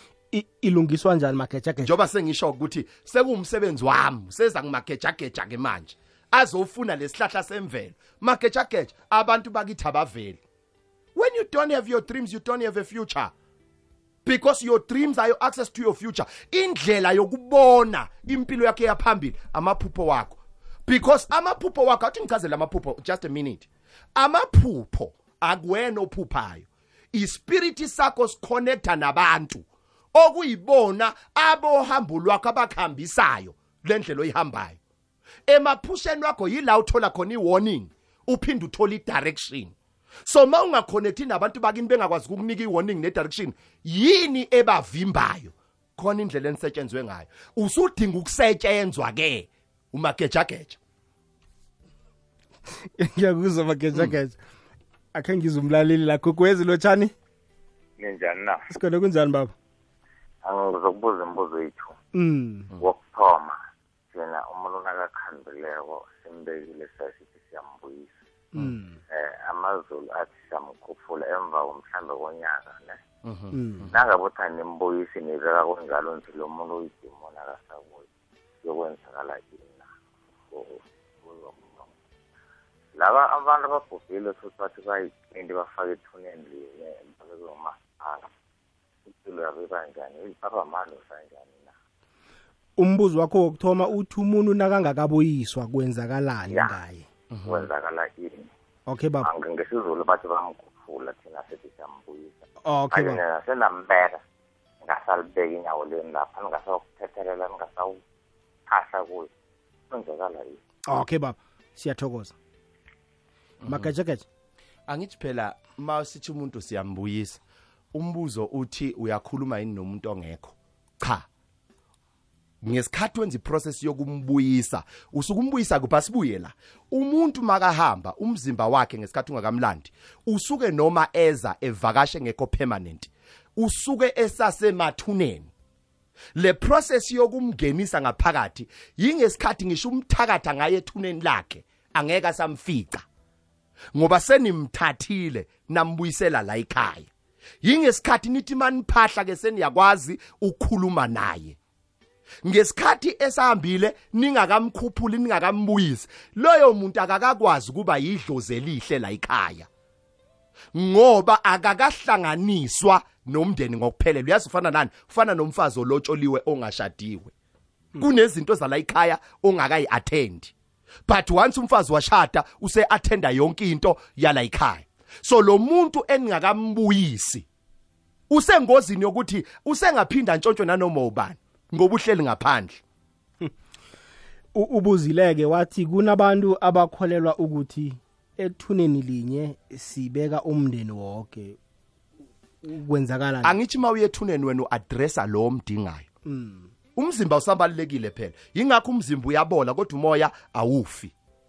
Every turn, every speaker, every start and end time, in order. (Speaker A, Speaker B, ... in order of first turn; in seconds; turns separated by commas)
Speaker A: 0.3-1.9, Speaker B: 1.8-10.4, Speaker B: 11.2-13.3, Speaker B: 14.2-34.8, Speaker B: 35.5-50.8, Speaker A: 53.0-54.4, Speaker A: 55.1-57.1, Speaker C: 58.0-58.7, Speaker A: 58.7-59.5, Speaker C: 60.4-62.0, Speaker A: 62.1-62.7, Speaker C: 62.8-63.6, Speaker C: 64.1-68.1, Speaker A: 68.5-69.0, Speaker C: 69.1-73.0, Speaker B: 73.2-74.0, Speaker A: 73.5-73.9, Speaker C: 73.9-78.1, Speaker C: 78.6-79.9, Speaker C: 80.5-82.0, Speaker C: 82.9-88.3, Speaker C: 89.1-91.8, Speaker A: 92.8-97.1, Speaker C: 96.5-96.8, Speaker B: 97.3-97.7, Speaker C: 97.5-98.5, Speaker A: 98.9-99.3, Speaker C: 99.2-104.2, Speaker A: 102.7-103.2, Speaker C: 104.8-108.0, Speaker C: 108.7-109.3, Speaker C: 109.9-110.6, Speaker A: 110.9-112.3, Speaker B: 113.6-113.9, Speaker A: 113.7-114.2, Speaker B: 114.9-117.4, Speaker B: 117.9-121.3, Speaker B: 122.6-135.5, Speaker B: 136.3-143.1, Speaker B: 143.9-147.1, Speaker B: 147.6-151.6, Speaker B: 152.4-159.7, Speaker B: 160.7-167.3, Speaker B: 168.0-170.5, Speaker B: 171.1-177.5, Speaker B: 178.3-182.8, Speaker A: 184.6-191.6, Speaker A: 192.6-193.6, Speaker B: 193.4-196.1, Speaker A: 196.3-196.7, Speaker B: 197.0-201.1